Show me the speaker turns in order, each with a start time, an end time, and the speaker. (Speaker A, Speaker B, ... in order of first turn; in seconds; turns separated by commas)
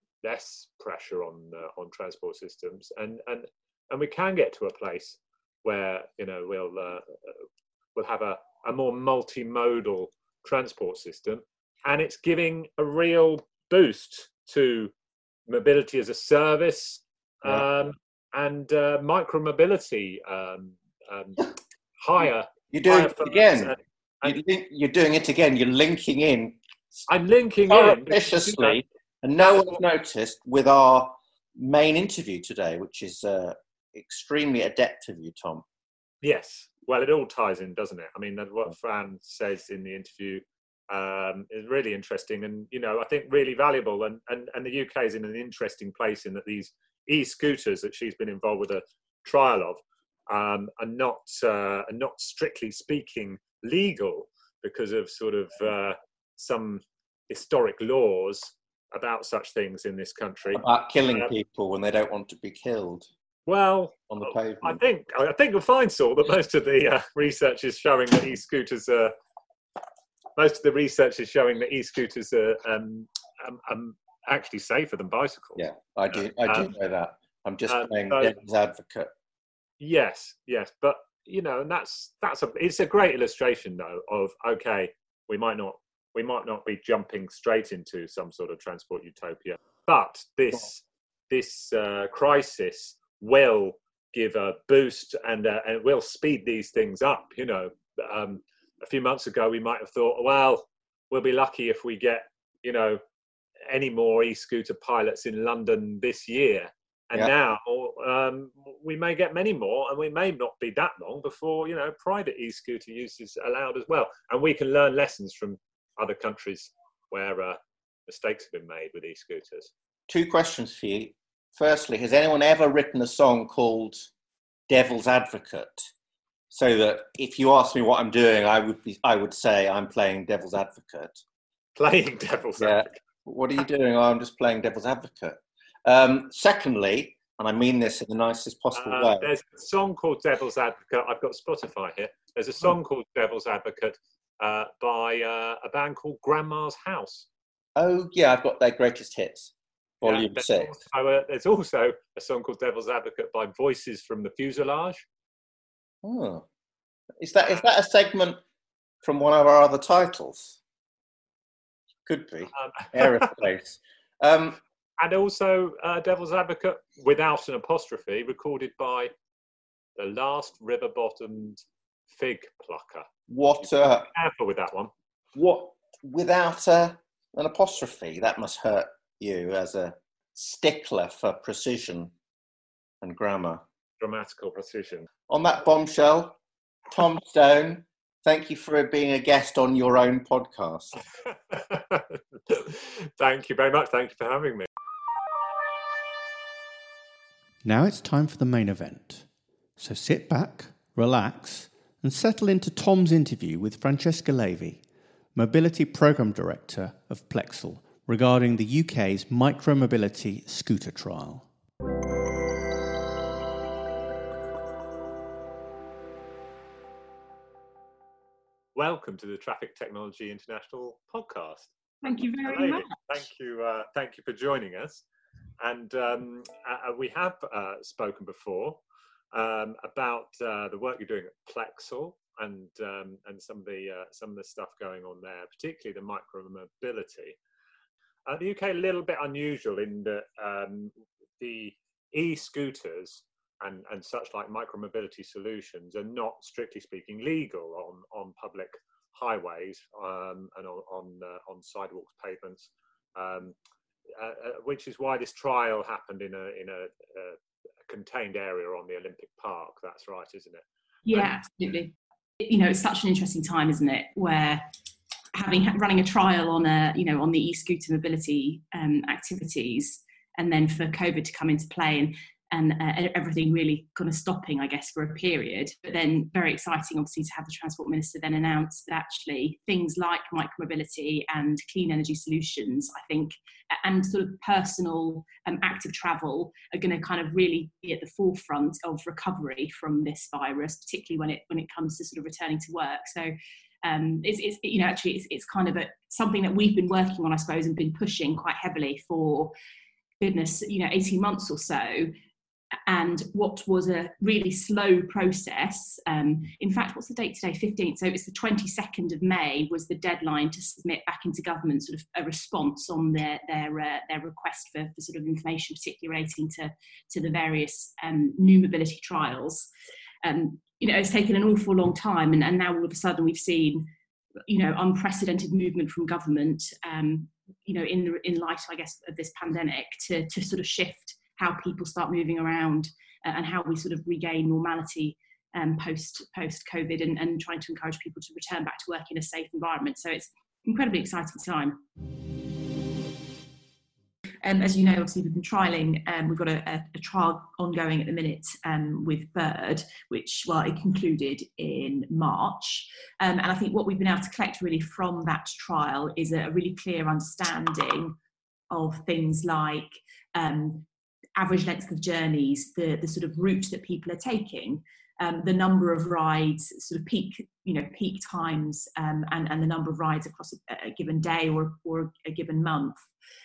Speaker A: 0.2-7.4, Speaker A: 7.9-14.9, Speaker A: 15.5-24.4, Speaker B: 22.7-27.0, Speaker A: 27.1-28.8, Speaker B: 27.7-35.6, Speaker A: 36.2-61.3, Speaker B: 60.5-63.1, Speaker A: 63.5-69.1, Speaker B: 64.1-64.8, Speaker A: 70.4-76.7, Speaker B: 75.5-79.1, Speaker A: 77.7-78.3, Speaker A: 79.8-103.0, Speaker A: 103.7-119.7, Speaker B: 120.1-124.1, Speaker B: 124.7-125.9, Speaker B: 126.5-131.2, Speaker A: 131.8-133.0, Speaker B: 132.6-139.3, Speaker A: 138.8-147.3, Speaker B: 147.8-150.7, Speaker A: 150.0-155.0, Speaker B: 156.0-156.4, Speaker B: 157.2-158.4, Speaker B: 159.0-160.6, Speaker B: 162.1-164.6, Speaker A: 162.8-163.2, Speaker A: 165.0-169.1, Speaker A: 170.0-173.1, Speaker B: 173.3-174.1, Speaker A: 174.1-174.9, Speaker B: 175.3-182.1, Speaker B: 183.0-183.6, Speaker A: 184.0-185.1, Speaker B: 185.3-186.3, Speaker B: 186.9-191.0, Speaker A: 191.5-194.7, Speaker C: 197.6-199.2, Speaker C: 199.8-204.8, Speaker C: 205.3-211.4, Speaker A: 218.7-221.7, Speaker D: 222.0-223.0, Speaker A: 222.4-225.0, Speaker A: 225.6-228.8, Speaker A: 229.3-237.4, Speaker A: 238.3-253.5, Speaker A: 254.1-261.3, Speaker D: 261.1-264.6, Speaker D: 265.3-299.5, Speaker D: 300.2-302.1, Speaker D: 302.9-319.7, Speaker D: 320.2-323.9, Speaker D: 324.5-341.8, Speaker D: 344.4-358.1, Speaker D: 358.7-360.9, Speaker D: 361.4-373.1